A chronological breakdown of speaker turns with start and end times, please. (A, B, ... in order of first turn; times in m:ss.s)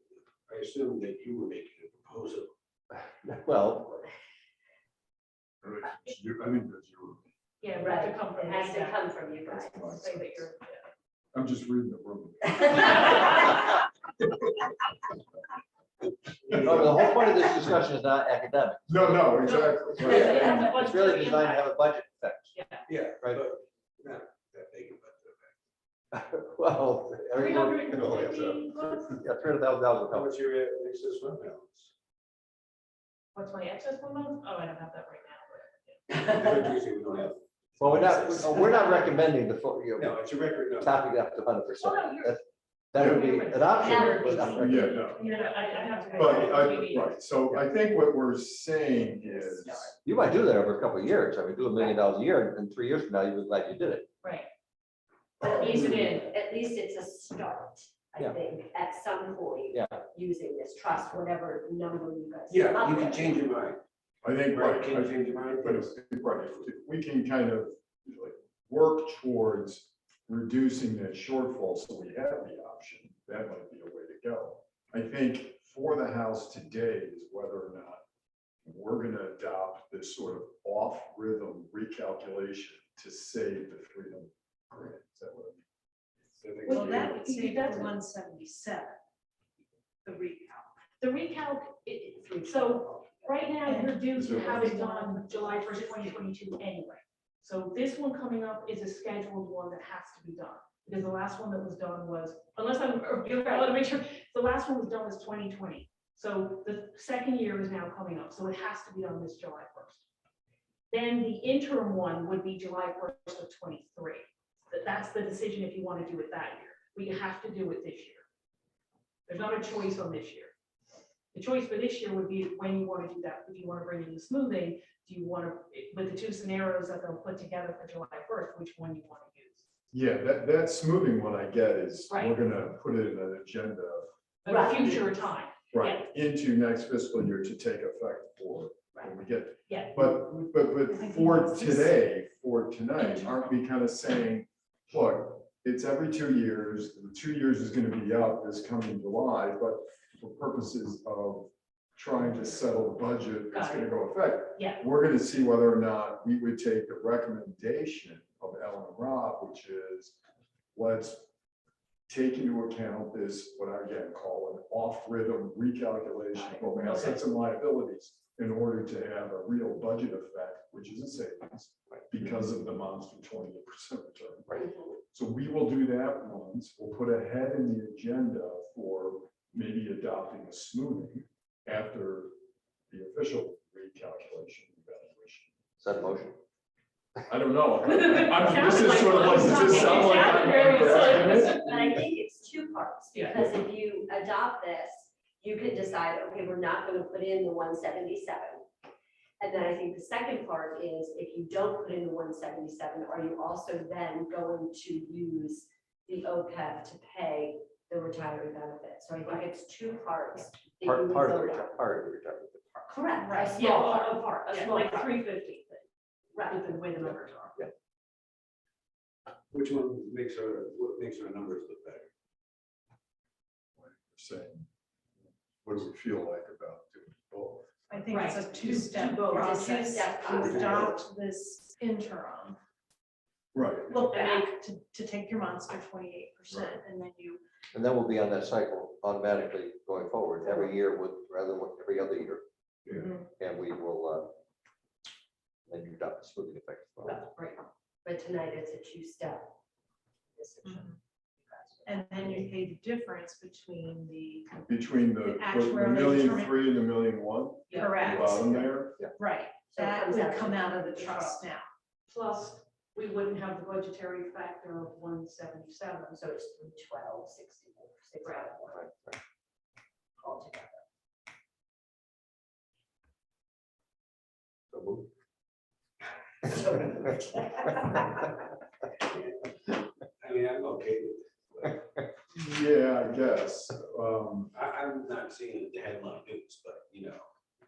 0:00.5-0:02.5 A
0:03.0-0:04.0 B
0:05.6-0:07.3 C
0:07.6-0:09.0 D
0:07.8-0:10.1 E
0:09.4-0:10.3 C
0:09.8-0:10.9 D
0:11.3-0:13.3 C
0:13.0-0:13.4 D
0:16.5-0:17.5 A
0:16.5-0:18.9 B
0:16.6-0:16.9 C
0:18.9-0:20.7 C
0:19.4-0:21.7 D
0:20.0-0:22.5 B
0:20.0-0:20.7 E
0:22.5-0:22.9 D
0:22.9-0:25.5 A
0:26.1-0:30.3 B
0:27.4-0:29.2 D
0:30.1-0:31.9 A
0:33.3-0:36.0 D
0:36.1-0:39.3 A
0:37.8-0:42.4 B
0:39.9-0:41.0 A
0:41.8-0:42.4 D
0:42.9-0:45.1 B
0:42.9-0:43.3 C
0:43.0-0:44.6 D
0:43.7-0:46.4 E
0:44.6-0:45.2 C
0:45.2-0:47.2 D
0:45.2-0:46.6 F
0:46.1-0:49.9 C
0:48.9-0:50.0 E
0:50.0-0:54.1 B
0:54.2-0:54.5 D
0:55.4-1:03.5 E
0:55.4-0:56.3 D
0:59.7-1:00.0 B
1:02.5-1:03.8 A
1:04.2-1:18.0 C
1:04.4-1:05.9 A
1:18.6-1:25.6 C
1:26.4-1:27.1 A
1:26.7-1:28.0 D
1:26.7-1:29.0 F
1:30.0-1:30.7 F
1:31.0-1:50.0 D
1:32.1-1:33.4 E
1:33.6-1:36.3 F
1:34.1-1:34.7 C
1:50.9-1:58.3 D
1:59.3-2:00.5 D
2:01.3-2:09.6 D
2:09.9-2:14.1 C
2:12.1-2:12.4 D
2:14.4-2:16.0 D
2:14.5-2:15.0 E
2:15.7-2:40.2 C
2:19.7-2:20.2 D
2:20.9-2:22.0 F
2:23.0-2:23.3 F
2:33.5-2:34.8 D
2:40.7-2:41.3 C
2:42.1-3:02.3 C
2:46.3-2:47.3 D
2:54.6-2:54.9 E
3:02.9-3:05.5 C
3:05.8-3:06.4 B
3:07.3-3:12.0 C
3:07.8-3:11.7 D
3:10.5-3:18.7 E
3:13.1-3:13.4 D
3:19.4-3:31.8 E
3:30.8-3:33.0 B
3:32.9-3:35.2 E
3:33.2-3:35.8 D
3:36.3-3:36.8 E
3:36.4-3:37.7 D
3:39.5-3:42.1 A
3:43.8-3:44.7 C
3:45.6-3:47.7 C
3:47.9-3:52.6 F
3:48.1-3:50.4 D
3:49.2-3:51.0 E
3:50.4-3:50.9 A
3:53.5-3:53.9 C
3:53.9-3:57.4 F
3:53.9-3:54.5 D
3:56.5-3:56.8 C
3:57.7-4:02.4 B
4:00.4-4:00.7 E
4:02.8-4:03.2 A
4:02.9-4:03.2 F
4:03.3-4:04.3 B
4:05.7-4:07.2 B
4:07.0-4:09.6 E
4:10.3-4:12.4 E
4:10.6-4:11.0 F
4:11.8-4:16.7 F
4:14.7-4:19.0 C
4:17.7-4:18.2 D
4:17.7-4:21.7 F
4:19.7-4:21.4 E
4:22.1-4:26.2 D
4:26.1-4:28.9 E
4:28.2-4:28.6 D
4:30.2-4:30.8 E
4:34.7-4:35.1 B
4:36.6-4:38.0 E
4:39.0-4:41.8 A
4:42.3-4:44.5 C
4:44.5-4:47.2 A